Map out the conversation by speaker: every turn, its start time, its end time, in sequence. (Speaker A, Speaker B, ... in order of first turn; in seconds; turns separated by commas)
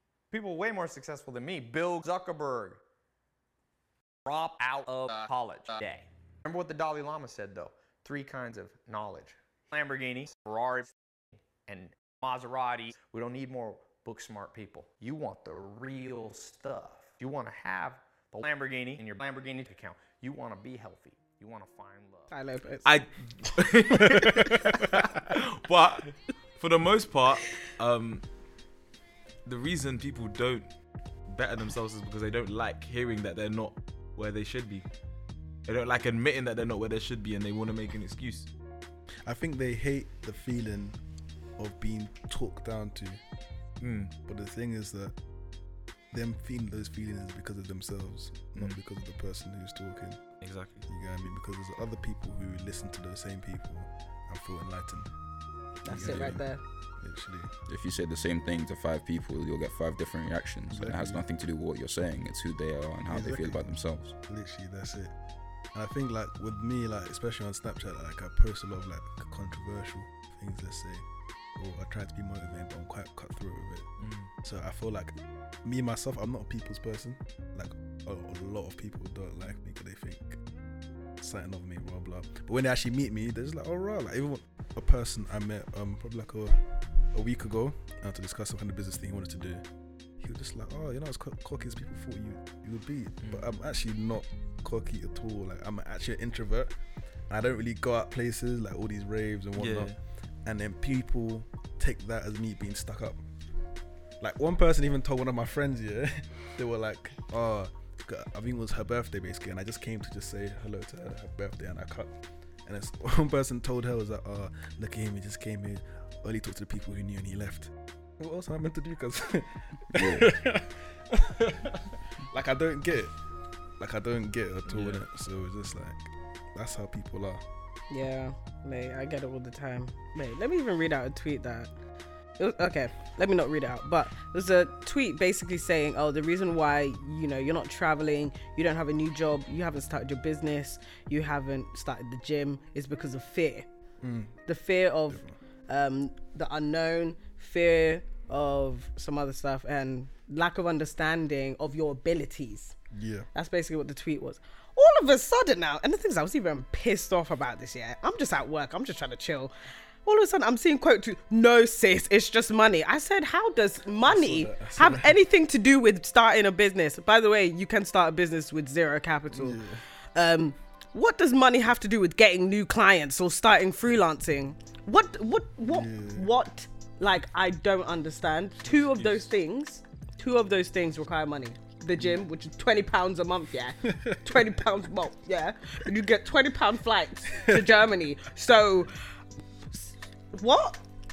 Speaker A: 0.3-2.8, Speaker A: 4.2-10.9, Speaker A: 11.6-22.3, Speaker B: 22.3-22.9, Speaker C: 22.8-28.2, Speaker C: 29.4-30.7, Speaker C: 31.3-34.9, Speaker C: 35.7-38.5, Speaker D: 39.2-41.0, Speaker D: 41.6-43.2, Speaker C: 43.8-44.1, Speaker D: 44.2-45.2, Speaker D: 46.1-50.2, Speaker C: 50.4-50.8, Speaker D: 50.9-55.1, Speaker B: 55.8-56.6, Speaker D: 55.8-57.5, Speaker E: 56.0-56.4, Speaker E: 57.7-64.1, Speaker D: 60.7-61.2, Speaker D: 63.1-65.1, Speaker D: 65.7-73.9, Speaker C: 74.0-74.3, Speaker D: 74.4-80.4, Speaker D: 81.2-86.6, Speaker D: 87.1-89.6, Speaker D: 90.2-96.8, Speaker D: 97.3-103.2, Speaker C: 99.6-100.0, Speaker D: 104.2-121.8, Speaker E: 119.9-120.3, Speaker D: 122.3-123.1, Speaker D: 123.8-127.4, Speaker C: 124.7-125.0, Speaker B: 127.9-131.7, Speaker B: 132.4-143.7, Speaker D: 144.0-144.4, Speaker B: 144.5-152.7, Speaker D: 145.1-145.3, Speaker D: 152.9-153.3, Speaker B: 153.3-159.5, Speaker B: 160.0-169.6, Speaker D: 164.0-165.2, Speaker D: 169.3-169.8, Speaker B: 170.1-188.9, Speaker D: 175.7-176.3, Speaker C: 178.9-179.2, Speaker D: 182.0-182.2, Speaker D: 183.9-184.5, Speaker B: 189.7-190.8